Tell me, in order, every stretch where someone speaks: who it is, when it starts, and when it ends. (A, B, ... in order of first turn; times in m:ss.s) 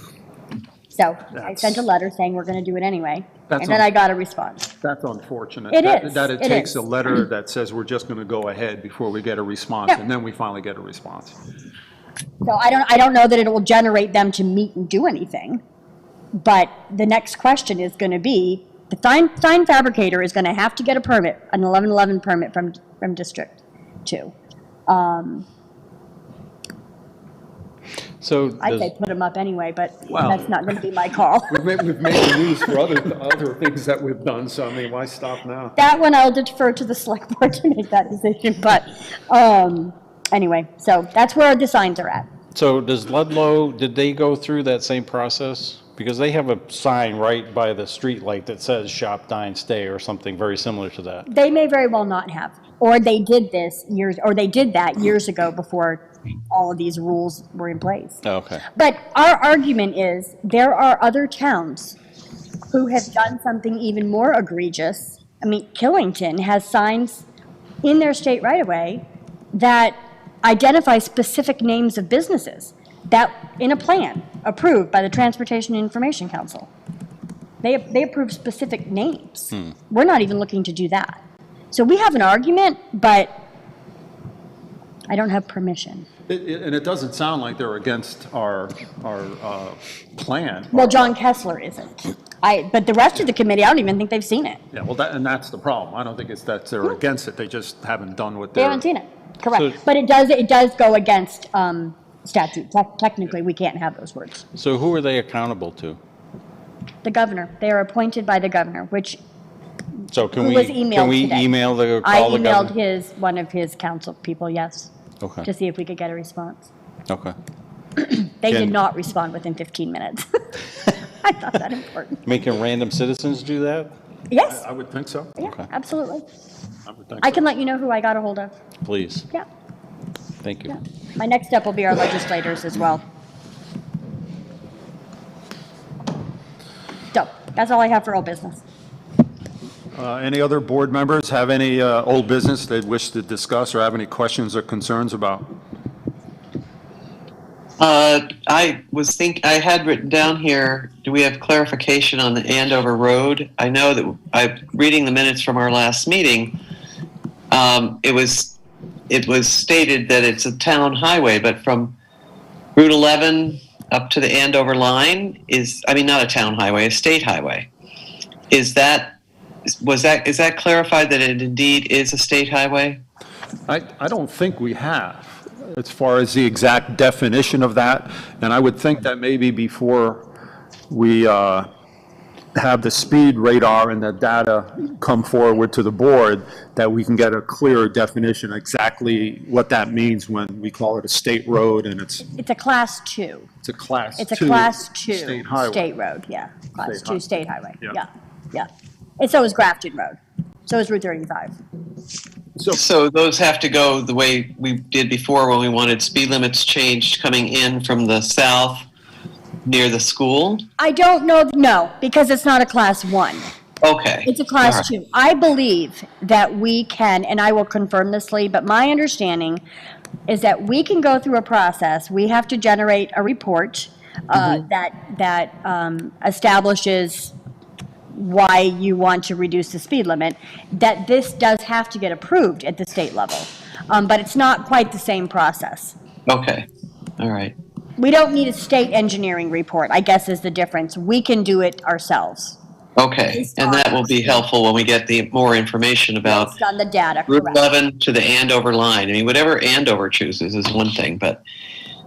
0:00.9-0:04.7 A
0:01.3-0:01.9 B
0:03.5-0:03.8 B
0:04.8-0:11.4 B
0:05.7-0:06.8 A
0:12.4-0:15.6 A
0:16.3-0:24.3 A
0:24.9-0:25.4 A
0:28.2-0:28.9 C
0:28.6-0:31.5 A
0:30.1-0:30.5 B
0:31.5-0:35.8 B
0:35.8-0:42.3 A
0:42.5-0:51.2 C
0:51.3-1:02.0 A
0:58.2-0:58.6 C
1:02.7-1:07.2 A
1:07.8-1:16.7 A
1:17.6-1:21.2 A
1:21.7-1:23.3 A
1:25.1-1:26.1 A
1:26.3-1:31.2 B
1:30.7-1:34.6 A
1:34.7-1:38.8 B
1:38.6-1:44.4 A
1:44.5-1:46.0 C
1:47.0-1:49.2 A
1:50.1-1:52.7 C
1:50.4-1:51.5 A
1:52.0-1:54.9 A
1:55.2-1:55.5 C
1:55.4-1:56.7 A
1:57.1-1:57.3 C
1:58.0-2:02.2 A
1:58.5-1:58.8 C
2:02.2-2:03.9 C
2:04.3-2:04.6 A
2:04.5-2:05.4 B
2:05.4-2:06.2 A
2:05.4-2:05.7 C
2:06.8-2:07.4 B
2:07.2-2:08.5 A
2:08.8-2:09.2 C
2:10.4-2:10.7 C
2:10.7-2:13.0 A
2:17.1-2:18.6 A
2:19.9-2:25.5 B
2:27.8-2:36.6 D
2:37.5-2:38.6 D
2:39.1-2:42.0 D
2:42.8-2:47.7 D
2:48.5-2:49.2 D
2:49.8-2:53.0 D
2:53.7-3:00.2 B
3:00.9-3:01.7 B
3:02.5-3:12.3 B
3:12.3-3:13.5 A
3:13.6-3:15.8 B
3:14.2-3:21.6 A
3:16.8-3:17.2 B
3:22.7-3:28.9 D
3:29.6-3:30.6 D
3:30.8-3:33.5 A
3:33.8-3:34.8 D
3:34.2-3:39.6 A
3:40.3-3:47.3 A
3:48.1-3:55.9 A
3:56.3-3:56.7 D
3:57.2-3:57.5 D
3:58.0-4:02.6 A
4:03.0-4:06.6 D
4:03.3-4:04.4 A
4:06.2-4:07.6 A
4:07.3-4:11.4 D